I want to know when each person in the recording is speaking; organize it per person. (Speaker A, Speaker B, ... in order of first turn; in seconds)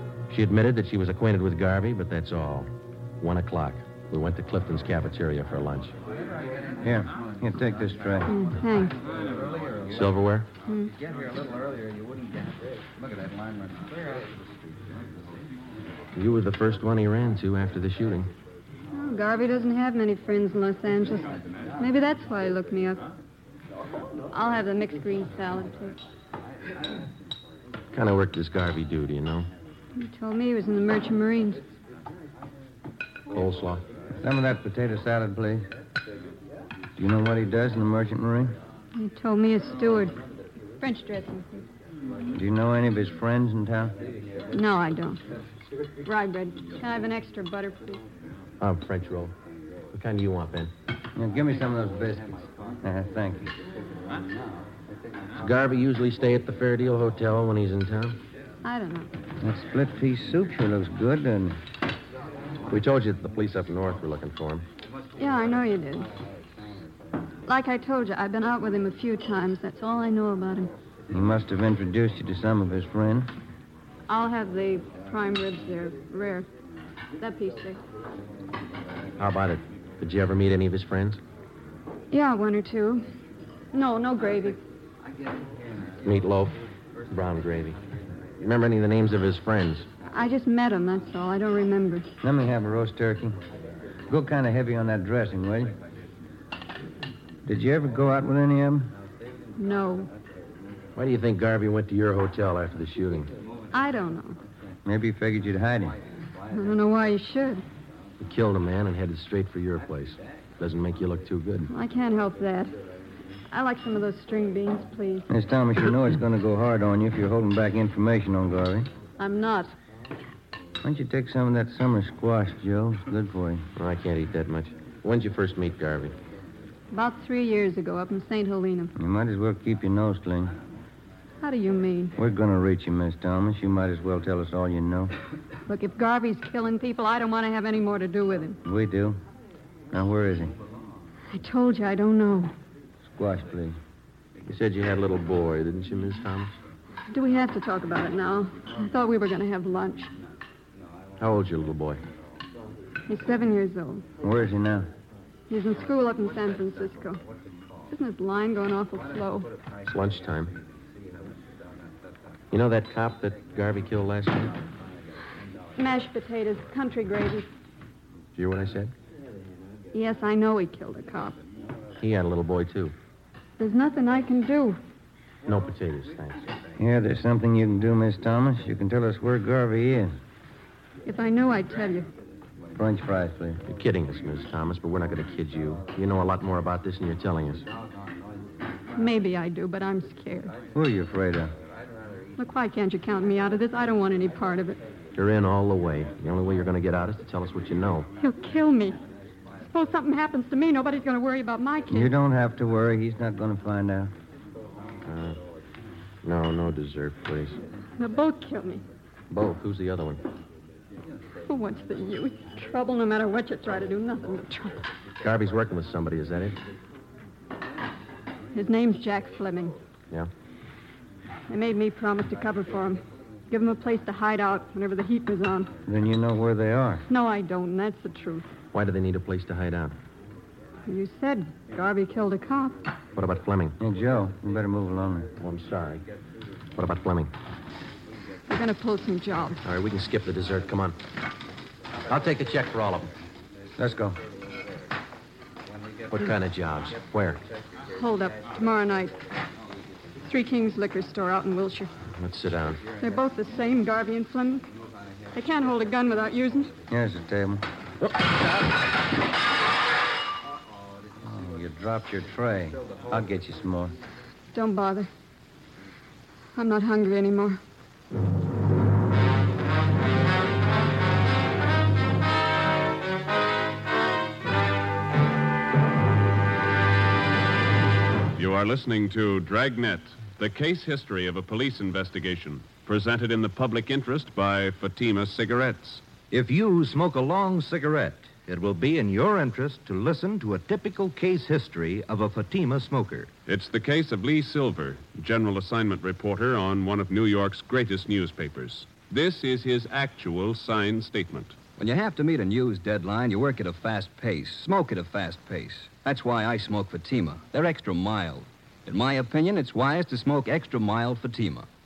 Speaker A: 0.3-5.9, 9.9-10.5, 16.1-18.3, 27.9-29.5, 33.3-33.9, 48.6-49.4, 49.9-50.7, 55.4-58.2, 62.7-64.7, 79.2-81.2, 86.0-87.8, 88.4-89.9, 101.0-103.3, 108.2-111.7, 123.8-126.1, 144.5-146.6, 151.2-152.0, 159.9-160.5, 162.5-164.6, 168.3-168.9, 172.0-172.9, 175.5-176.5, 183.6-187.7, 195.1-198.1, 205.0-205.4, 206.2-207.6, 209.3-210.2, 215.2-216.6, 228.7-230.0, 233.2-233.8, 235.4-236.0, 236.8-237.3, 239.6-241.0, 242.1-243.1, 246.1-247.4, 252.1-252.8, 258.0-258.6
Speaker B: 6.8-8.3, 34.2-35.6, 37.0-38.5, 42.3-44.0, 51.1-53.5, 59.4-61.6, 71.1-73.3, 92.2-93.4, 94.1-95.8, 97.5-98.9, 104.8-106.0, 115.3-118.9, 120.8-123.7, 129.0-130.5, 132.2-135.1, 138.6-139.2, 139.9-140.5, 143.1-143.8, 154.2-154.9, 176.8-180.1, 182.8-183.6, 190.7-191.5, 201.9-204.1, 225.9-227.0, 233.8-235.3, 243.8-244.2, 256.9-257.6, 261.2-263.9
Speaker C: 8.3-8.9, 10.7-10.9, 18.9-23.0, 24.3-26.0, 30.0-31.6, 39.0-40.1, 40.8-41.6, 44.5-45.2, 46.0-48.0, 58.6-59.1, 65.2-66.1, 67.5-70.7, 74.1-76.5, 77.2-77.8, 82.1-83.1, 83.7-84.6, 90.1-92.1, 99.6-100.1, 103.7-104.4, 106.5-107.6, 111.7-112.8, 113.5-115.3, 119.2-119.7, 126.9-128.9, 131.4-132.1, 135.7-138.6, 141.3-142.5, 147.1-150.1, 153.1-154.0, 155.5-157.2, 157.9-159.5, 165.8-167.5, 169.9-171.4, 173.6-174.8, 181.1-182.1, 188.9-190.6, 192.4-194.8, 198.2-199.0, 199.7-202.1, 208.0-208.8, 211.5-214.8, 218.5-219.8, 221.5-225.7, 227.1-228.5, 230.9-232.8, 238.5-239.6, 247.9-249.2, 250.2-251.9, 253.0-254.7, 255.3-256.7, 264.5-265.1, 266.5-267.6
Speaker D: 9.2-9.9, 10.9-14.9
Speaker E: 278.4-286.0, 293.5-301.6
Speaker F: 286.3-293.3
Speaker G: 301.8-311.6